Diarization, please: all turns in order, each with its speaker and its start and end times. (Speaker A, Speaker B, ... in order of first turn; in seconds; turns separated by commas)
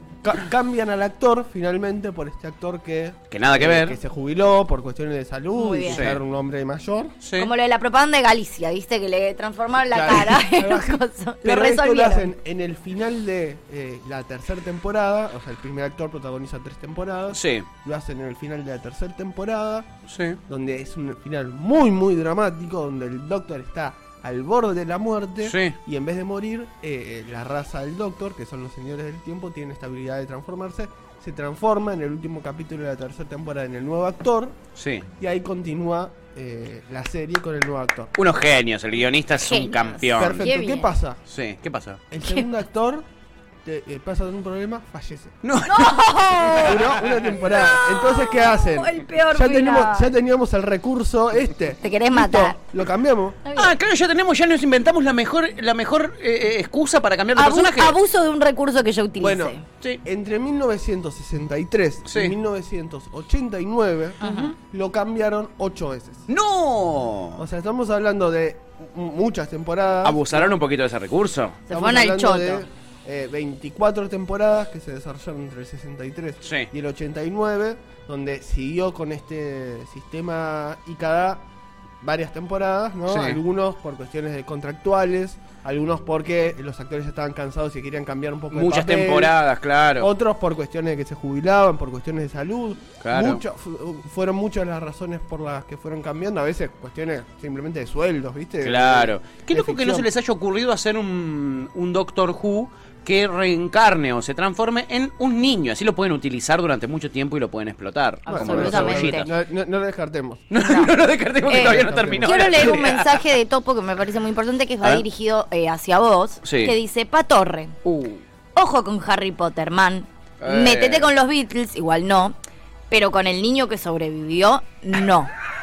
Speaker A: 0.2-7.2, Speaker B: 3.3-4.0, Speaker C: 5.5-6.1, Speaker B: 5.9-6.2, Speaker B: 7.2-7.5, Speaker C: 7.3-12.3, Speaker A: 9.9-19.9, Speaker B: 17.3-17.7, Speaker B: 20.1-20.4, Speaker A: 20.5-34.6, Speaker B: 25.4-25.8, Speaker B: 34.7-35.0, Speaker A: 35.2-38.1, Speaker B: 38.1-40.5, Speaker C: 39.4-40.9, Speaker A: 40.2-41.2, Speaker B: 41.3-42.0, Speaker A: 42.1-43.0, Speaker A: 43.6-45.4, Speaker B: 45.4-47.3, Speaker C: 45.7-50.1, Speaker A: 46.6-53.4, Speaker C: 51.8-52.6, Speaker C: 53.4-53.7, Speaker B: 53.5-58.0, Speaker C: 57.4-59.6, Speaker A: 59.2-66.3, Speaker B: 62.1-62.4, Speaker C: 64.2-64.5, Speaker B: 66.3-67.4, Speaker A: 67.4-70.5, Speaker B: 70.0-71.6, Speaker C: 71.7-72.6, Speaker A: 71.7-81.4, Speaker B: 76.4-76.7, Speaker A: 82.0-89.4, Speaker B: 83.1-83.4, Speaker B: 88.5-90.1, Speaker A: 90.0-100.1, Speaker B: 93.0-93.4, Speaker B: 98.6-109.3, Speaker C: 108.3-109.3, Speaker A: 108.3-110.5, Speaker B: 110.5-113.2, Speaker C: 110.6-110.9, Speaker C: 111.5-117.8, Speaker A: 111.5-112.5, Speaker B: 116.4-116.7, Speaker B: 117.8-118.2, Speaker C: 118.5-122.3, Speaker B: 120.4-121.1, Speaker C: 122.9-125.3